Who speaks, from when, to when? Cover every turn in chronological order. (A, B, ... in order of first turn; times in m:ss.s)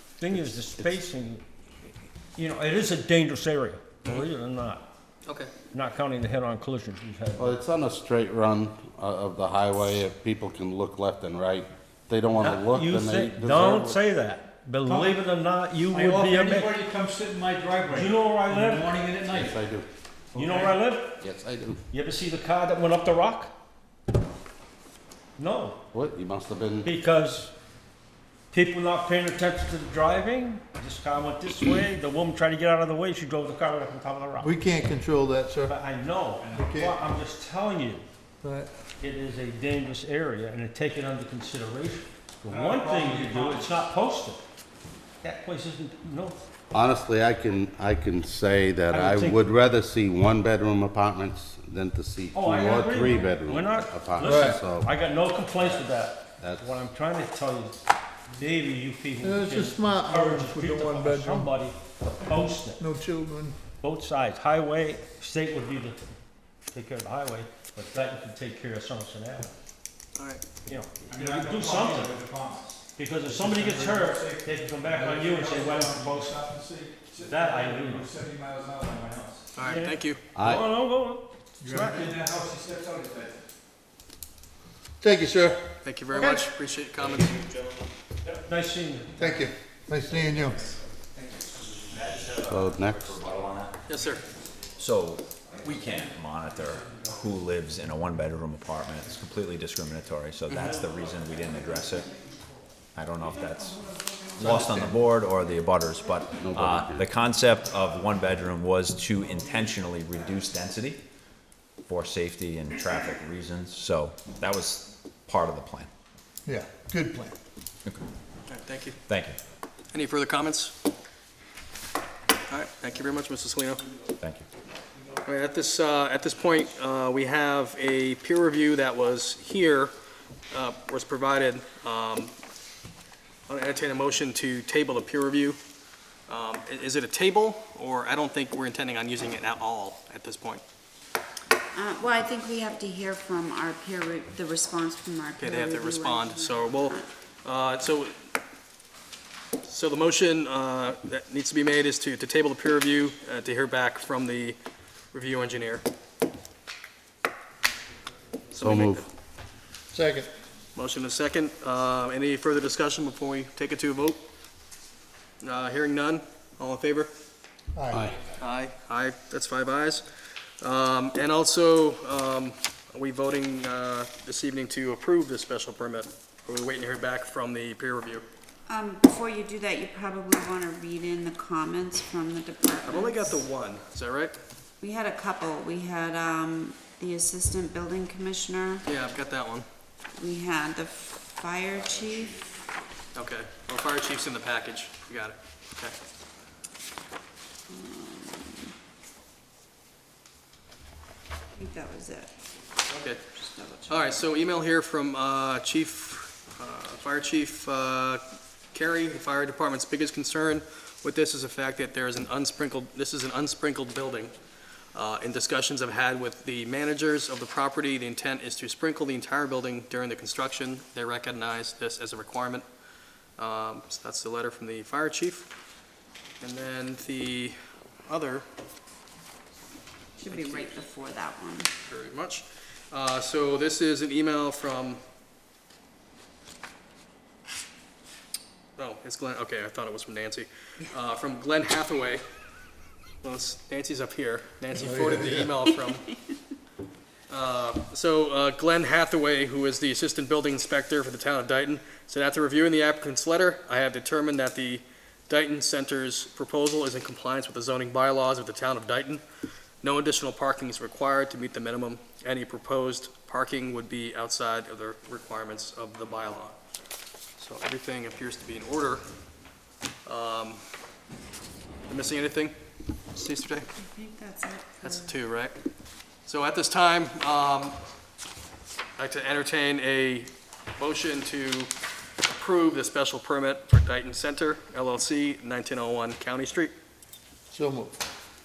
0:00.2-0:01.4 A
0:00.3-0:01.0 B
0:02.4-0:04.9 A
0:05.2-0:05.5 C
0:05.7-0:07.5 A
0:07.4-0:14.0 B
0:12.4-0:16.9 A
0:15.9-0:16.2 D
0:17.2-0:17.8 D
0:17.8-0:19.0 A
0:19.2-0:19.9 B
0:20.3-0:21.2 A
0:20.4-0:20.7 D
0:21.2-0:21.8 B
0:21.9-0:23.5 A
0:25.4-0:25.8 A
0:25.9-0:26.9 B
0:26.8-0:27.5 A
0:28.5-0:34.5 A
0:34.4-0:35.7 E
0:35.6-0:38.0 A
0:36.4-0:36.7 D
0:36.6-0:36.9 E
0:38.4-0:38.7 E
0:39.0-0:44.4 A
0:42.5-0:43.7 D
0:45.2-0:46.4 A
0:46.7-0:54.9 B
0:48.9-0:49.4 A
0:52.3-0:57.8 A
0:54.2-0:54.6 E
0:56.4-0:56.8 B
0:58.3-1:02.8 A
0:59.2-1:01.5 E
1:02.8-1:03.6 E
1:03.8-1:06.0 A
1:06.7-1:09.5 A
1:10.2-1:10.4 C
1:10.6-1:12.3 A
1:11.2-1:12.8 D
1:12.9-1:16.5 A
1:13.3-1:14.1 D
1:14.9-1:19.4 D
1:17.2-1:18.1 A
1:19.5-1:20.2 C
1:19.6-1:22.2 A
1:20.3-1:20.7 B
1:21.6-1:22.1 E
1:21.8-1:23.4 D
1:25.0-1:25.6 E
1:25.8-1:27.5 C
1:26.1-1:26.4 A
1:28.4-1:29.5 A
1:29.2-1:30.6 E
1:30.1-1:30.8 D
1:31.3-1:32.2 D
1:31.5-1:33.8 F
1:32.4-1:33.2 B
1:33.9-1:34.2 C
1:34.8-1:42.1 F
1:35.5-1:37.2 D
1:40.5-1:40.8 C
1:40.8-1:42.4 D
1:42.9-1:51.0 F
1:43.3-1:44.6 D
1:44.4-1:45.0 B
1:46.4-1:47.1 B
1:47.7-1:48.0 D
1:49.2-1:50.2 D
1:51.8-1:55.9 F
1:56.5-1:57.3 E
1:58.5-1:59.0 C
1:59.1-1:59.4 F
1:59.9-2:00.8 C
2:02.5-2:03.8 C
2:04.2-2:04.5 F
2:05.2-2:09.9 C
2:10.5-2:12.3 C
2:13.5-2:15.6 C
2:16.3-2:20.6 C
2:21.7-2:27.1 G
2:25.4-2:28.2 C
2:29.6-2:34.6 C
2:35.1-2:35.8 C
2:38.5-2:39.1 C
2:38.6-2:39.1 B
2:39.9-2:40.3 E
2:40.8-2:44.2 C
2:45.4-2:47.1 C
2:47.8-2:48.0 E
2:47.9-2:48.2 B
2:48.3-2:50.0 C
2:50.6-2:58.2 C
2:58.7-3:03.4 G
3:02.8-3:04.4 C
3:04.8-3:08.8 G
3:08.8-3:09.7 C
3:10.2-3:12.4 G
3:13.2-3:16.0 C
3:17.7-3:18.7 G
3:21.6-3:22.4 G
3:22.9-3:23.2 C
3:23.2-3:24.2 G
3:23.9-3:34.3 C
3:34.9-3:42.7 C
3:43.4-3:45.5 C
3:46.4-3:47.6 C
3:48.1-3:48.5 C
3:50.2-3:51.7 G
3:50.3-3:50.8 C
3:51.8-3:55.0 C
3:58.8-4:02.2 C
4:03.2-4:06.1 C
4:04.9-4:05.4 E
4:07.3-4:19.2 C
4:19.8-4:26.6 C
4:27.4-4:29.0 C
4:30.1-4:30.6 C
4:31.9-4:32.6 C
4:33.1-4:33.7 C
4:33.8-4:35.2 G
4:34.8-4:35.5 C
4:36.2-4:37.8 C
4:39.0-4:41.7 C
4:42.3-4:46.7 C
4:47.5-4:47.9 E